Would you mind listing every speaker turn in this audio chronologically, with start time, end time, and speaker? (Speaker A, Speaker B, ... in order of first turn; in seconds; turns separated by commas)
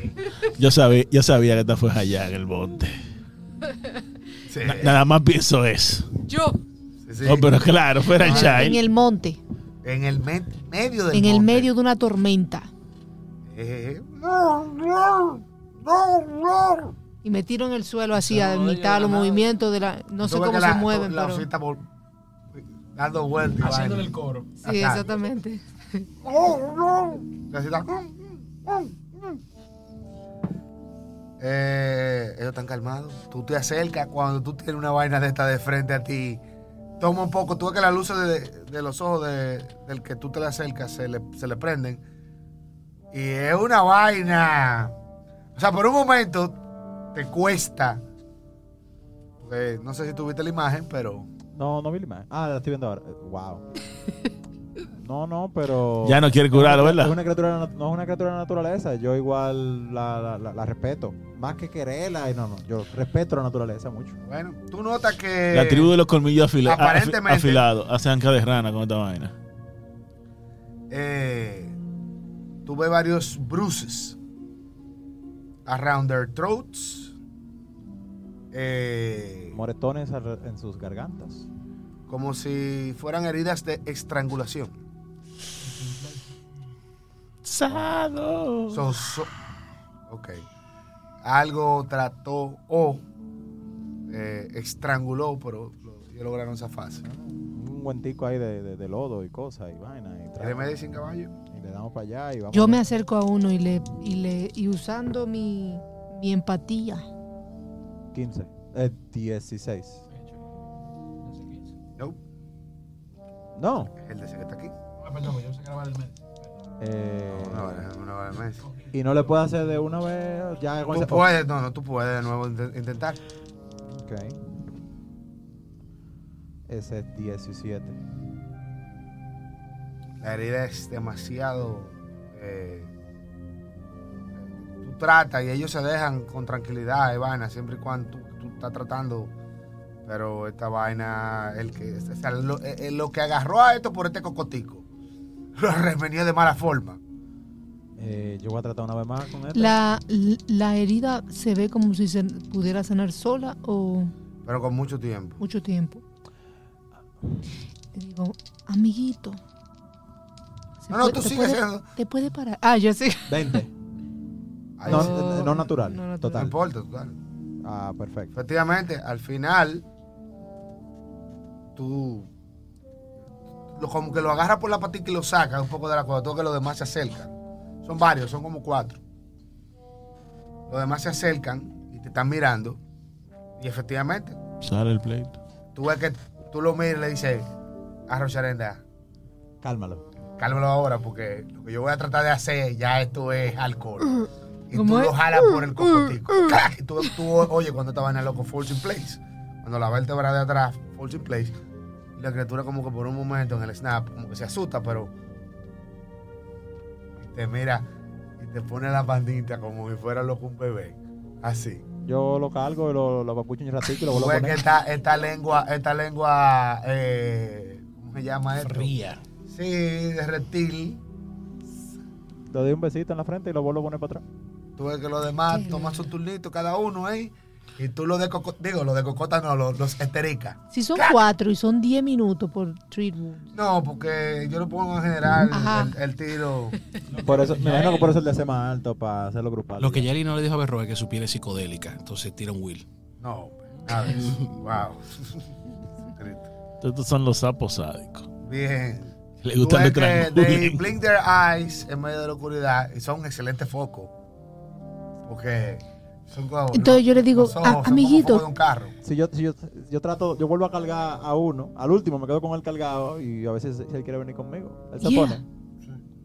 Speaker A: 0.4-3.0, Speaker B: 4.5-5.0, Speaker A: 4.6-6.1, Speaker C: 6.3-6.5, Speaker B: 7.1-7.5, Speaker A: 7.2-8.8, Speaker C: 8.2-9.4, Speaker B: 8.2-8.7, Speaker B: 9.8-11.7, Speaker C: 11.1-12.7, Speaker B: 13.5-16.9, Speaker C: 17.2-21.5, Speaker D: 18.1-19.5, Speaker B: 20.2-21.9, Speaker B: 22.5-24.1, Speaker D: 23.6-24.5, Speaker C: 24.6-26.1, Speaker B: 24.6-25.1, Speaker B: 26.2-29.4, Speaker B: 31.4-36.4, Speaker B: 37.0-42.0, Speaker B: 43.1-44.9, Speaker B: 45.6-46.6, Speaker B: 47.1-48.0, Speaker B: 49.4-51.3, Speaker E: 51.5-53.6, Speaker E: 54.9-64.2, Speaker A: 56.0-57.1, Speaker B: 64.3-65.9, Speaker A: 65.5-69.3, Speaker B: 66.6-67.7, Speaker B: 70.9-71.8, Speaker B: 72.6-74.2, Speaker B: 75.7-77.1, Speaker B: 78.5-79.6, Speaker E: 79.5-81.5, Speaker B: 82.1-84.8, Speaker D: 85.8-86.2, Speaker A: 87.5-88.9, Speaker B: 88.7-89.3, Speaker B: 90.1-90.4, Speaker B: 91.2-93.0, Speaker B: 94.1-97.0, Speaker E: 97.0-100.8, Speaker B: 100.4-101.3, Speaker E: 101.5-102.8, Speaker C: 102.5-107.1, Speaker E: 108.1-110.0, Speaker D: 110.1-110.4, Speaker D: 111.2-111.7, Speaker E: 113.5-113.9, Speaker B: 114.0-114.8, Speaker D: 115.0-116.5, Speaker E: 116.8-117.9, Speaker B: 117.3-118.6, Speaker D: 118.6-119.0, Speaker E: 118.9-121.3, Speaker B: 120.9-123.2, Speaker E: 123.9-124.4, Speaker E: 126.7-128.0, Speaker B: 130.2-132.9, Speaker B: 134.4-139.3, Speaker B: 140.1-144.9, Speaker B: 145.6-147.0, Speaker E: 148.0-149.8, Speaker C: 149.5-154.1, Speaker B: 154.4-155.4, Speaker C: 155.4-156.0, Speaker C: 157.9-159.4, Speaker C: 160.8-163.6, Speaker B: 160.9-161.9, Speaker E: 163.3-163.7, Speaker B: 164.8-165.2, Speaker E: 164.8-166.6, Speaker C: 164.9-166.5, Speaker B: 166.3-167.2, Speaker E: 167.6-168.3, Speaker B: 168.3-169.8, Speaker B: 171.8-172.3, Speaker B: 173.8-177.3, Speaker B: 177.8-179.0, Speaker B: 180.7-182.8, Speaker B: 183.6-184.4, Speaker A: 184.6-185.4, Speaker B: 185.8-187.5, Speaker B: 188.1-188.8, Speaker E: 189.6-190.0, Speaker B: 190.4-201.6, Speaker C: 194.7-196.6, Speaker B: 202.2-205.1, Speaker B: 207.2-211.8, Speaker E: 212.1-214.6, Speaker B: 214.1-218.9, Speaker D: 218.6-219.2, Speaker B: 219.5-221.0, Speaker E: 222.5-224.2, Speaker B: 224.8-231.2, Speaker C: 225.5-226.1, Speaker C: 230.7-233.5, Speaker B: 233.5-236.8, Speaker C: 235.5-236.0, Speaker D: 237.1-238.2, Speaker E: 237.2-240.1, Speaker D: 239.8-242.9, Speaker B: 243.2-245.5, Speaker B: 246.1-246.5, Speaker A: 246.8-248.3, Speaker B: 248.4-254.1, Speaker A: 249.4-250.9, Speaker B: 255.2-258.9, Speaker C: 256.7-258.5, Speaker E: 259.0-265.4, Speaker C: 265.0-265.4